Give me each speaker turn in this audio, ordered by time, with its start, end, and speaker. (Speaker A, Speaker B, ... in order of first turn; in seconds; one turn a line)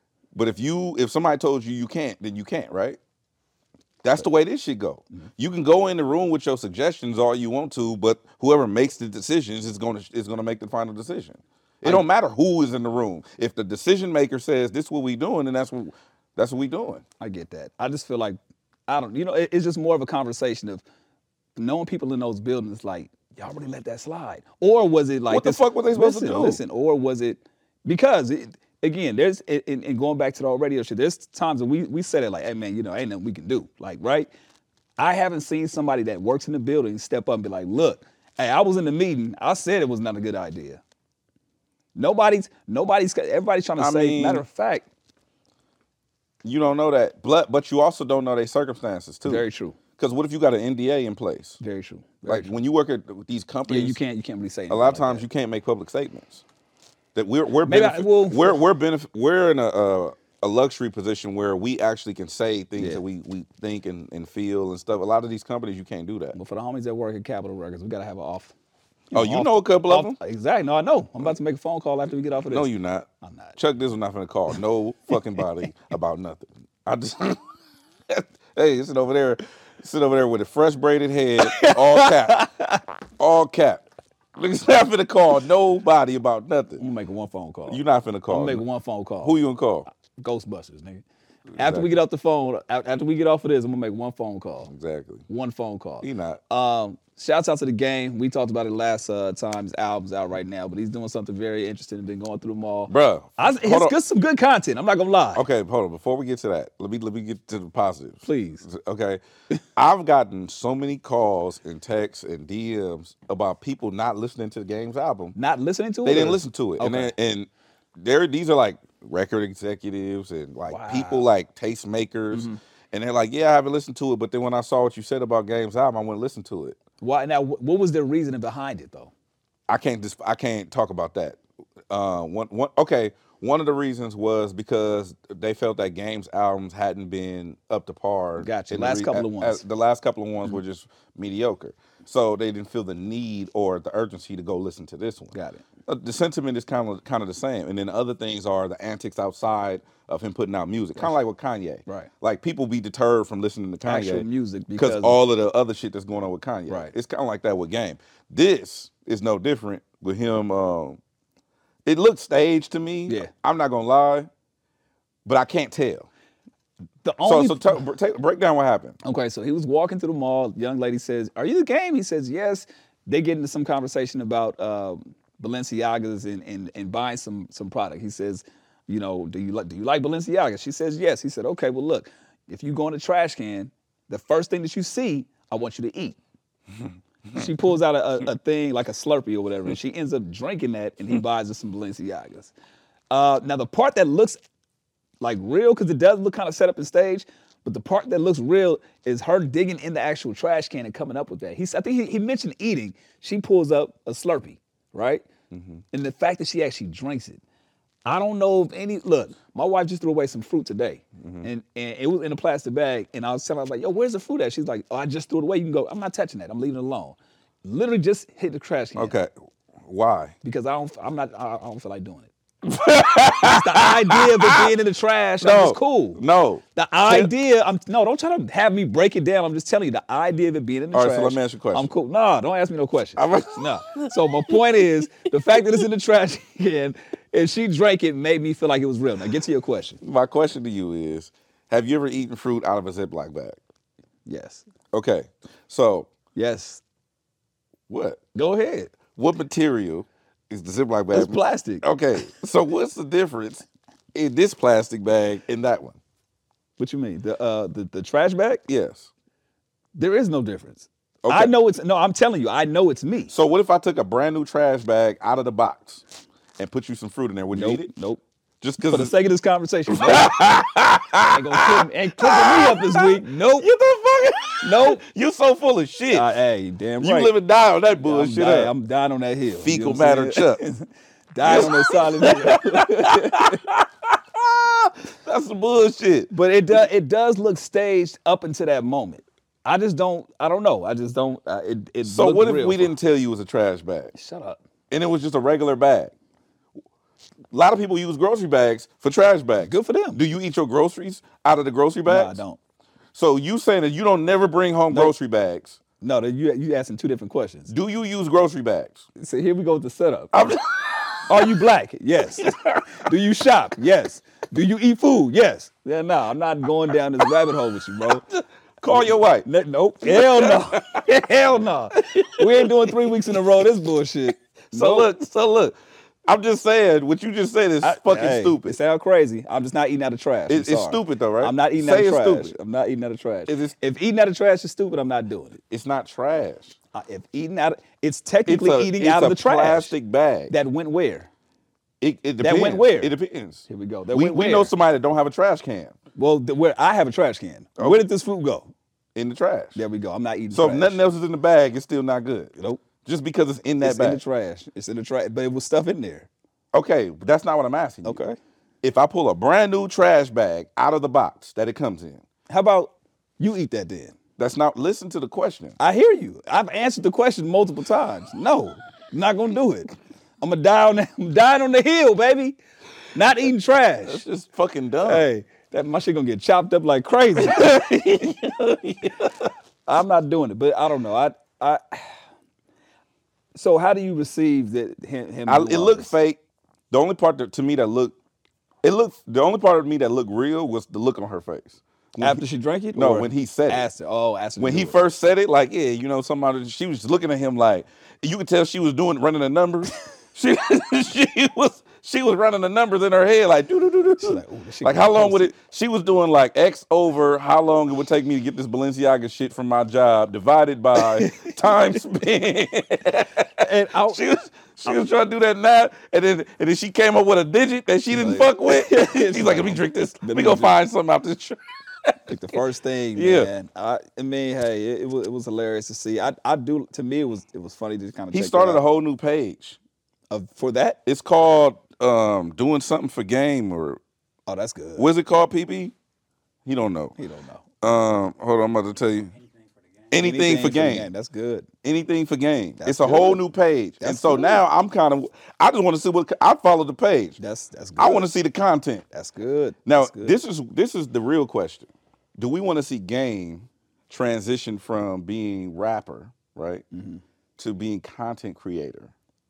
Speaker A: 0.3-3.0
Speaker A: 4.0-17.0
Speaker B: 17.2-18.4
Speaker B: 18.9-20.8
Speaker B: 21.6-34.3
Speaker A: 25.3-26.6
Speaker B: 35.0-40.8
Speaker B: 42.0-44.9
Speaker A: 43.8-44.4
Speaker A: 46.4-49.5
Speaker B: 49.2-49.8
Speaker A: 50.0-51.6
Speaker B: 51.6-52.5
Speaker A: 52.2-54.0
Speaker B: 53.7-55.2
Speaker A: 54.7-56.4
Speaker A: 57.1-66.4
Speaker B: 57.6-58.6
Speaker B: 66.3-68.5
Speaker B: 69.1-72.7
Speaker A: 69.1-70.2
Speaker A: 72.5-77.4
Speaker B: 73.2-73.6
Speaker A: 78.1-82.5
Speaker B: 81.4-82.8
Speaker A: 83.2-83.8
Speaker A: 84.3-86.8
Speaker B: 86.8-89.4
Speaker A: 87.7-88.6
Speaker A: 89.2-89.9
Speaker B: 90.2-91.0
Speaker A: 91.5-91.9
Speaker B: 91.6-94.7
Speaker A: 94.7-95.2
Speaker B: 95.3-105.4
Speaker A: 96.0-96.4
Speaker A: 102.9-103.9
Speaker A: 105.3-109.2
Speaker B: 108.2-108.6
Speaker A: 109.8-115.3
Speaker B: 115.3-117.1
Speaker A: 116.0-126.8
Speaker B: 120.7-121.2
Speaker B: 122.3-122.6
Speaker B: 127.0-129.1
Speaker A: 129.7-131.4
Speaker A: 131.9-145.3
Speaker B: 138.4-139.6
Speaker B: 145.3-145.6
Speaker A: 145.9-161.0
Speaker B: 153.8-155.2
Speaker B: 156.7-156.9
Speaker A: 161.8-164.3
Speaker A: 165.2-166.1
Speaker B: 167.0-167.8
Speaker A: 167.2-169.0
Speaker B: 169.0-186.2
Speaker B: 187.3-192.5
Speaker B: 193.1-194.4
Speaker B: 195.2-205.2
Speaker A: 205.5-205.8
Speaker B: 205.9-207.4
Speaker B: 208.1-219.2
Speaker A: 211.2-211.5
Speaker A: 218.9-219.3
Speaker A: 219.8-220.3
Speaker B: 220.4-222.3
Speaker A: 222.6-224.7
Speaker B: 223.4-226.2
Speaker A: 225.4-227.3
Speaker B: 226.7-240.0
Speaker A: 230.9-231.9
Speaker A: 233.2-234.1
Speaker A: 240.0-243.6
Speaker B: 244.2-244.7
Speaker A: 244.9-246.1
Speaker B: 246.3-246.8
Speaker A: 247.9-248.2
Speaker B: 248.3-248.9
Speaker A: 249.1-256.0
Speaker B: 251.1-251.8
Speaker B: 256.8-258.6
Speaker A: 258.7-259.1
Speaker B: 259.9-263.3
Speaker A: 261.2-261.5
Speaker A: 263.3-266.1
Speaker A: 266.6-267.9
Speaker B: 267.5-268.2
Speaker A: 268.6-269.1
Speaker B: 268.8-270.4
Speaker A: 269.9-276.3
Speaker B: 271.3-273.7
Speaker B: 274.6-275.0
Speaker B: 276.1-277.3
Speaker A: 277.0-278.7
Speaker B: 278.0-283.6
Speaker A: 279.6-280.6
Speaker A: 281.4-286.3
Speaker B: 286.3-292.9
Speaker A: 292.0-294.1
Speaker B: 294.1-294.6
Speaker A: 294.9-296.1
Speaker A: 297.5-302.4
Speaker B: 299.6-300.2
Speaker B: 302.1-302.6
Speaker A: 303.1-305.8
Speaker B: 306.0-307.7
Speaker A: 307.7-309.0
Speaker B: 309.1-310.4
Speaker A: 310.3-311.4
Speaker B: 311.3-318.2
Speaker A: 312.4-312.8
Speaker A: 318.0-319.4
Speaker B: 318.9-325.1
Speaker A: 320.0-321.0
Speaker A: 322.0-323.5
Speaker A: 324.7-325.7
Speaker A: 326.2-328.8
Speaker B: 327.8-335.6
Speaker A: 330.5-332.5
Speaker A: 333.5-333.7
Speaker A: 335.7-336.8
Speaker B: 336.9-339.9
Speaker A: 338.4-340.5
Speaker B: 340.5-341.3
Speaker A: 342.0-345.9
Speaker B: 342.4-343.1
Speaker B: 343.7-344.7
Speaker B: 346.1-348.7
Speaker A: 347.8-348.0
Speaker A: 349.1-349.8
Speaker B: 349.7-351.0
Speaker A: 350.5-352.5
Speaker B: 352.6-352.8
Speaker A: 353.0-354.2
Speaker B: 353.8-356.3
Speaker A: 356.7-358.2
Speaker B: 358.0-358.4
Speaker A: 358.8-362.2
Speaker B: 362.5-364.1
Speaker A: 364.4-365.7
Speaker B: 365.8-372.6
Speaker B: 373.1-374.2
Speaker A: 374.0-375.2
Speaker B: 375.0-377.7
Speaker A: 377.4-379.5
Speaker B: 379.9-382.2
Speaker B: 383.5-386.1
Speaker A: 385.5-386.4
Speaker A: 386.9-388.1
Speaker A: 388.8-392.4
Speaker B: 392.2-395.0
Speaker A: 392.9-393.9
Speaker A: 394.6-422.6
Speaker B: 404.2-405.5
Speaker B: 410.9-411.7
Speaker B: 413.6-414.2
Speaker B: 418.1-420.8
Speaker B: 422.3-428.8
Speaker A: 423.1-423.5
Speaker A: 428.3-429.8
Speaker B: 430.3-431.0
Speaker A: 431.1-434.0
Speaker B: 434.5-435.1
Speaker A: 435.0-435.9
Speaker A: 436.6-437.1
Speaker B: 437.2-437.7
Speaker A: 437.8-439.3
Speaker A: 440.1-441.1
Speaker B: 440.1-441.7
Speaker A: 441.8-447.4
Speaker B: 442.8-443.4
Speaker B: 444.0-444.6
Speaker B: 447.4-448.4
Speaker A: 448.0-449.0
Speaker B: 449.1-450.4
Speaker A: 449.9-456.8
Speaker B: 456.9-457.2
Speaker A: 457.6-459.1